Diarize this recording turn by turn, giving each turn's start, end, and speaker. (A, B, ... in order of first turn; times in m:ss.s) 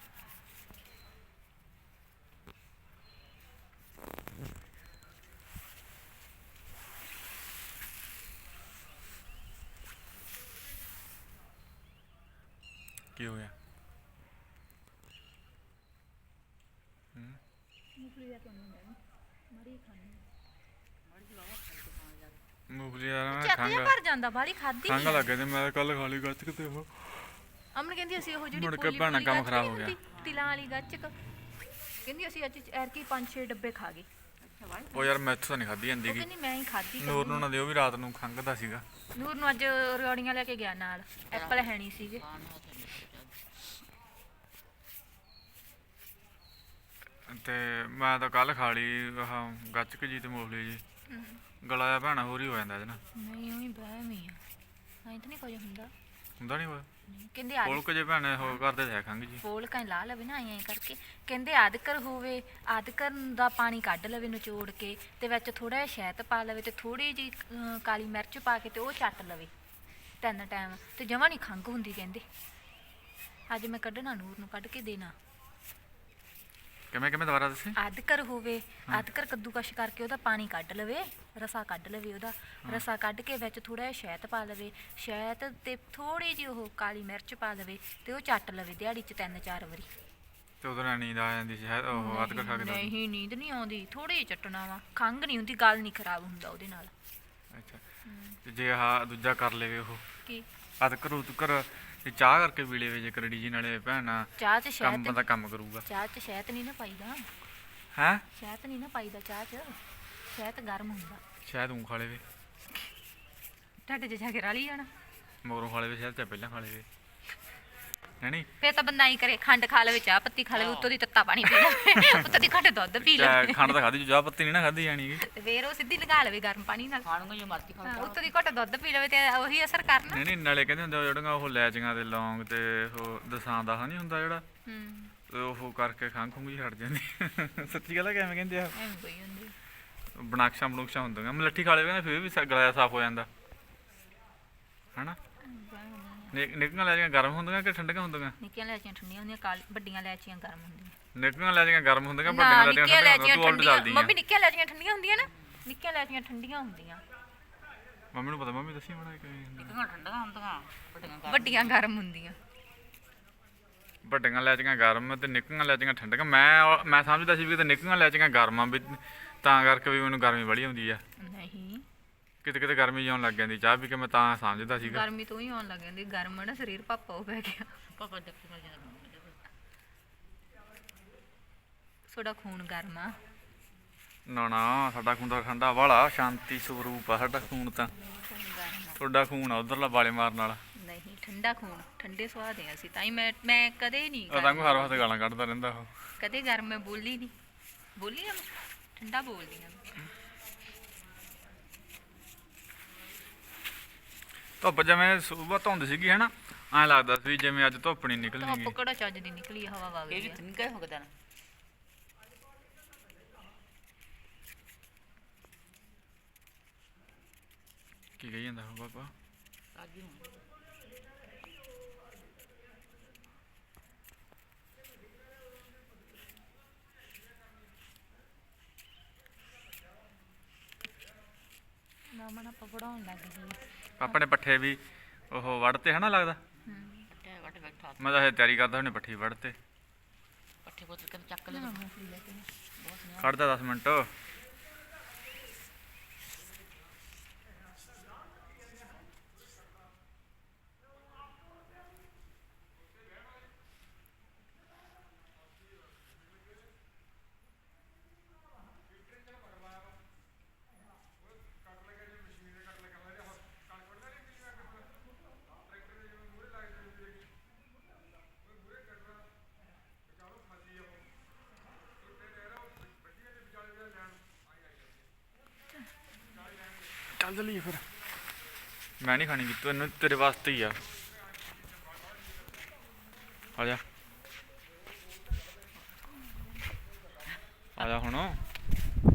0:13.2-0:13.5 A
0:18.0-0:19.0 B
0:19.5-0:20.2 B
0:21.1-0:22.4 C
0:22.7-0:24.0 A
0:23.3-0:25.3 B
0:24.8-0:27.2 A
0:27.7-0:31.2 B
0:28.5-0:30.0 A
0:30.1-0:30.4 C
0:32.0-0:34.1 B
0:34.4-0:35.2 C
0:34.9-0:36.3 A
0:36.0-0:37.5 B
0:37.0-0:38.8 A
0:39.2-0:42.2 B
0:41.3-0:43.4 C
0:47.2-0:50.8 A
0:51.1-0:51.4 B
0:51.6-0:53.0 A
0:53.1-0:54.4 B
0:55.0-0:55.9 B
0:56.4-0:56.9 A
0:57.1-0:57.8 B
0:57.6-0:59.4 A
0:59.4-1:09.5 B
1:10.2-1:12.2 B
1:13.5-1:15.2 B
1:16.9-1:17.8 A
1:17.8-1:29.9 B
1:30.6-1:32.9 A
1:31.9-1:36.9 B
1:37.5-1:37.8 A
1:38.0-1:38.4 B
1:38.4-1:40.0 A
1:40.8-1:44.3 A
1:44.4-1:45.2 B
1:44.8-1:45.8 A
1:45.8-1:47.3 B
1:47.9-1:48.2 A
1:48.4-1:49.8 B
1:50.3-1:51.2 B
1:51.4-1:52.2 A
1:53.8-1:54.9 B
1:55.4-1:56.8 A
1:58.2-1:58.5 A
1:58.6-2:03.8 B
2:00.5-2:00.9 C
2:01.9-2:02.3 A
2:03.0-2:05.2 A
2:05.2-2:07.1 B
2:07.0-2:08.3 C
2:07.8-2:10.2 B
2:10.1-2:14.4 A
2:14.6-2:15.1 B
2:15.3-2:18.8 A
2:18.7-2:19.6 B
2:20.1-2:23.3 A
2:25.4-2:26.4 B
2:26.3-2:28.4 A
2:28.4-2:30.9 B
2:31.1-2:34.2 A
2:32.2-2:37.0 B
2:35.2-2:35.6 C
2:38.1-2:39.8 A
2:39.6-2:41.8 C
2:41.2-2:42.4 B
2:44.0-2:51.0 A
2:51.2-2:51.9 B
2:52.4-2:55.1 A
2:54.8-2:57.8 B
2:57.9-2:59.4 C
3:02.1-3:03.1 B
3:04.2-3:07.9 A
3:07.9-3:09.0 B
3:09.0-3:10.6 A
3:10.8-3:15.0 B
3:14.3-3:15.9 A
3:16.2-3:17.3 B
3:18.0-3:19.9 B
3:24.6-3:28.8 A
3:28.3-3:30.4 B
3:30.1-3:31.1 C
3:38.2-3:39.1 A
3:39.8-3:40.4 C
3:52.1-3:54.2 B
3:54.0-3:56.4 A
3:56.6-3:58.1 C
3:56.6-3:57.1 B
3:58.0-3:59.6 A
4:00.6-4:01.9 C
4:01.5-4:02.5 B
4:02.8-4:03.4 C
4:03.2-4:04.1 A
4:37.1-4:37.8 A
4:39.0-4:40.8 A
4:43.6-4:43.8 A
4:47.8-4:48.4 A